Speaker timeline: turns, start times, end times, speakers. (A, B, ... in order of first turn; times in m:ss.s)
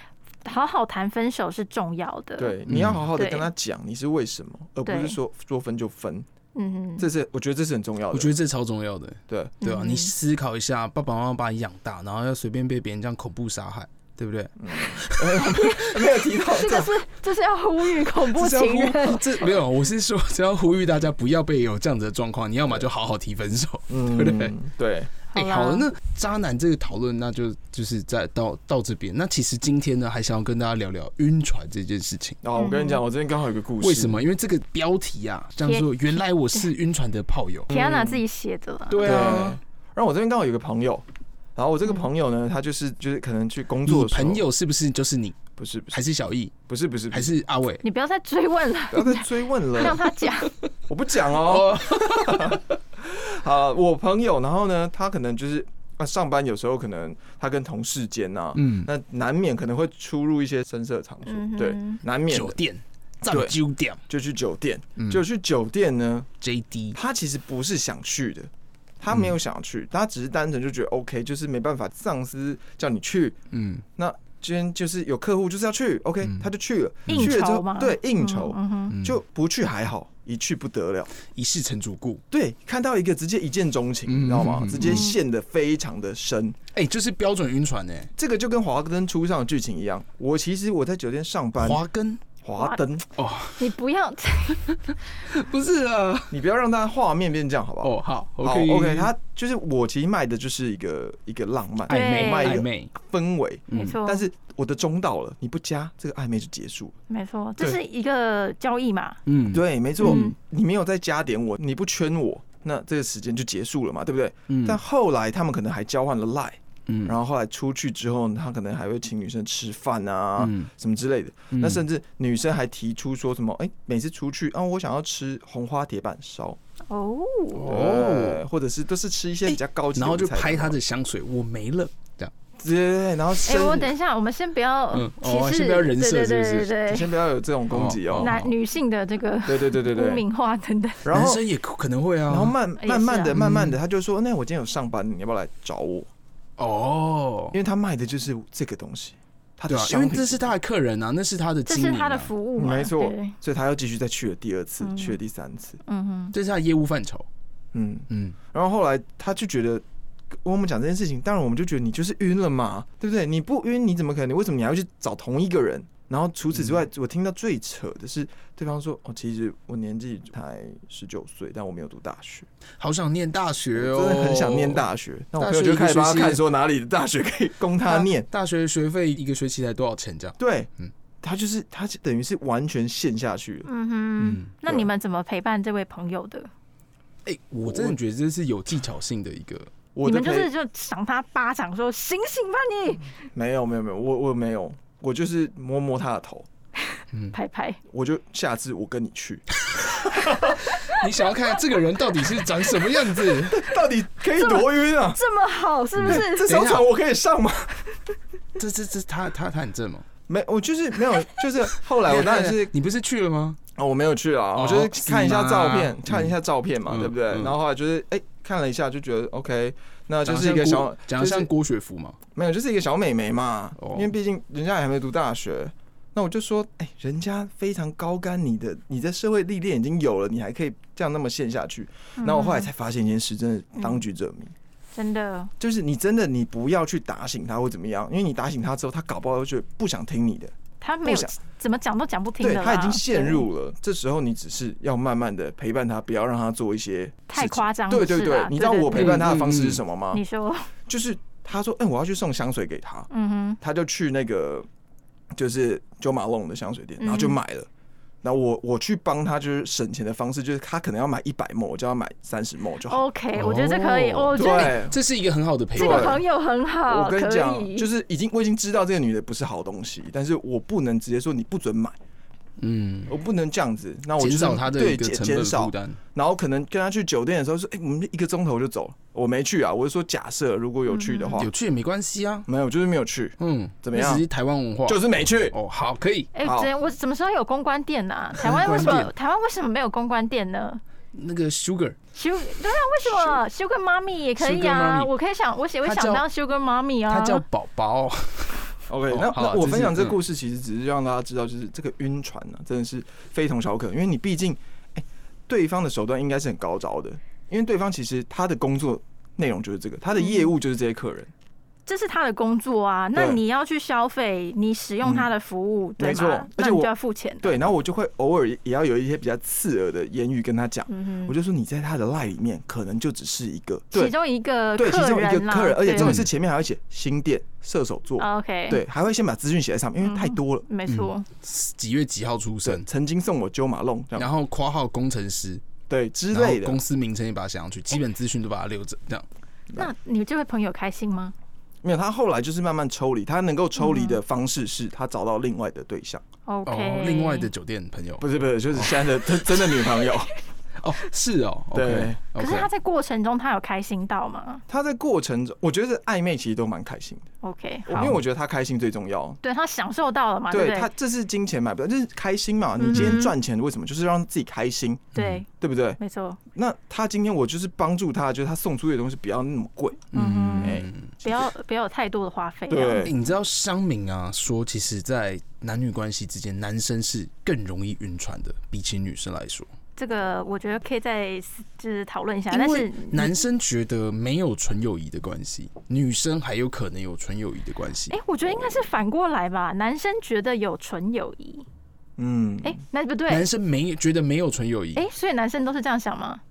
0:00.4-0:02.5 A
0:02.4-0:06.3 B
0:02.7-0:03.0 C
0:03.1-0:03.5 A
0:04.9-0:05.2 A
0:06.6-0:07.1 A
0:07.0-0:08.3 B
0:08.1-0:15.6 C
0:09.3-0:09.6 B
0:09.6-0:10.1 A
0:14.6-0:16.9 B
0:15.5-0:19.4 A
0:18.1-0:24.5 C
0:23.9-0:25.1 B
0:25.3-0:25.9 A
0:25.3-0:32.4 C
0:32.4-0:34.2 B
0:32.6-0:33.0 A
0:33.8-0:37.7 C
0:35.6-0:35.9 A
0:37.7-0:38.2 B
0:37.7-0:39.5 A
0:38.9-0:39.6 C
0:39.0-0:41.0 B
0:41.6-0:44.4 B
0:43.8-0:46.5 C
0:45.6-0:46.0 B
0:46.7-0:47.3 B
0:47.1-0:47.8 C
0:47.8-0:50.5 A
0:48.9-0:50.1 B
0:50.9-1:02.6 B
0:51.4-0:52.7 C
0:58.6-0:58.9 C
1:01.3-1:02.0 A
1:02.3-1:04.0 C
1:03.2-1:03.6 B
1:04.1-1:06.3 B
1:05.0-1:05.2 C
1:06.4-1:07.0 C
1:07.0-1:08.5 B
1:09.0-1:13.4 B
1:13.5-1:13.8 C
1:14.0-1:21.1 B
1:17.1-1:17.3 C
1:17.1-1:19.0 A
1:18.9-1:19.2 C
1:21.2-1:22.2 C
1:22.3-1:26.6 B
1:24.1-1:25.1 C
1:24.8-1:25.2 A
1:26.7-1:28.1 C
1:28.2-1:31.8 B
1:31.6-1:32.2 C
1:32.4-1:33.1 B
1:33.2-1:33.6 C
1:33.6-1:34.7 A
1:34.6-1:36.4 C
1:36.3-1:47.0 B
1:37.8-1:39.1 C
1:41.9-1:42.9 C
1:41.9-1:42.6 A
1:43.7-1:44.0 C
1:43.7-1:44.3 A
1:47.1-1:49.2 A
1:49.3-1:50.2 C
1:49.5-2:06.6 B
1:50.0-1:50.4 A
1:54.5-1:54.8 C
1:56.9-1:57.2 C
2:00.4-2:00.7 C
2:01.5-2:01.8 C
2:06.9-2:07.7 A
2:07.5-2:08.4 C
2:07.6-2:10.8 B
2:09.5-2:12.3 C
2:12.6-2:13.9 B
2:13.4-2:17.1 A
2:14.9-2:16.8 C
2:16.9-2:18.4 B
2:17.7-2:18.5 C
2:18.2-2:21.1 A
2:19.4-2:20.2 B
2:21.0-2:21.4 B
2:21.1-2:22.6 C
2:22.3-2:26.1 B
2:22.8-2:23.4 A
2:23.3-2:23.8 C
2:26.6-2:27.6 C
2:27.5-2:30.5 B
2:29.7-2:32.3 C
2:31.7-2:33.4 A
2:32.6-2:35.8 B
2:34.8-2:35.2 A
2:35.8-2:36.3 A
2:36.3-2:37.3 C
2:37.7-2:39.8 B
2:38.1-2:38.4 C
2:40.4-2:52.5 B
2:52.8-2:54.9 C
2:53.8-2:58.3 B
2:55.4-2:56.4 C
2:57.9-3:00.9 C
3:00.4-3:00.7 B
3:01.2-3:03.7 B
3:03.6-3:06.5 A
3:04.2-3:04.5 C
3:07.2-3:09.7 C
3:07.7-3:08.0 B
3:10.0-3:10.5 B
3:10.0-3:13.1 A
3:13.3-3:16.5 B
3:17.3-3:17.8 A
3:17.9-3:19.4 B
3:19.7-3:23.7 C
3:20.0-3:20.6 B
3:23.3-3:25.2 B
3:24.4-3:26.7 A
3:26.0-3:26.9 C
3:26.1-3:27.9 B
3:28.6-3:30.1 C
3:30.3-3:32.7 B
3:32.0-3:33.6 C
3:33.8-3:41.5 B
3:34.6-3:36.3 C
3:36.9-3:37.6 C
3:40.2-3:42.2 C
3:42.4-3:54.5 B
3:43.8-3:44.1 C
3:52.2-3:52.7 A
3:55.0-3:55.5 A
3:55.6-4:01.3 B
4:00.8-4:03.5 A
4:02.4-4:10.2 B
4:07.3-4:09.3 A
4:08.9-4:09.8 C
4:10.1-4:10.7 A
4:10.9-4:13.1 B
4:13.1-4:13.6 A
4:13.6-4:14.7 B
4:15.4-4:17.7 B
4:17.0-4:17.4 A
4:18.2-4:23.0 B
4:22.9-4:24.8 A
4:23.4-4:26.2 C
4:24.4-4:25.0 B
4:25.8-4:26.2 B
4:25.8-4:27.9 A
4:26.9-4:32.0 B
4:32.6-4:33.2 C
4:33.1-4:41.5 B
4:34.2-4:36.0 C
4:40.9-4:41.5 A
4:41.4-4:42.5 C
4:42.5-4:44.2 B
4:43.4-4:46.3 C
4:44.9-4:45.6 B
4:46.4-4:50.8 A
4:46.4-4:46.7 B
4:48.4-4:49.1 C
4:51.1-4:52.0 C
4:52.1-4:57.4 A
4:54.4-4:55.1 C
4:55.8-4:56.2 C
4:57.1-5:00.2 C
4:58.9-5:11.3 B
5:10.2-5:10.5 A
5:11.9-5:17.6 A
5:13.1-5:13.4 B
5:15.0-5:15.3 B
5:16.0-5:24.1 B
5:20.9-5:21.3 A
5:23.9-5:26.2 A
5:24.8-5:30.6 B
5:26.0-5:26.3 C
5:28.2-5:28.8 A
5:30.0-5:31.3 A
5:30.9-5:32.9 C
5:32.6-5:34.3 B
5:34.2-5:35.6 C
5:35.9-5:36.8 B
5:36.3-5:39.3 C
5:39.8-5:41.4 A
5:41.8-5:46.2 B
5:43.8-5:44.2 A
5:46.5-5:47.5 A
5:46.6-5:49.1 C
5:48.2-5:50.3 B
5:50.8-5:52.7 C
5:51.7-5:52.2 B
5:52.4-5:54.6 A
5:54.7-5:57.3 B
5:57.4-5:58.1 A
5:57.9-5:59.4 B
5:59.4-6:00.9 A
6:00.5-6:06.0 B
6:02.8-6:03.3 A
6:02.9-6:03.2 C
6:05.1-6:05.4 C
6:05.2-6:05.4 A
6:06.0-6:06.4 A
6:06.5-6:10.9 B
6:10.1-6:11.2 C
6:10.1-6:13.1 A
6:12.7-6:13.1 B
6:13.0-6:19.7 C
6:20.0-6:23.4 A
6:22.5-6:28.2 C
6:28.1-6:31.6 A
6:32.2-6:32.8 B
6:32.6-6:33.5 A
6:33.3-6:35.1 C
6:35.0-6:36.4 A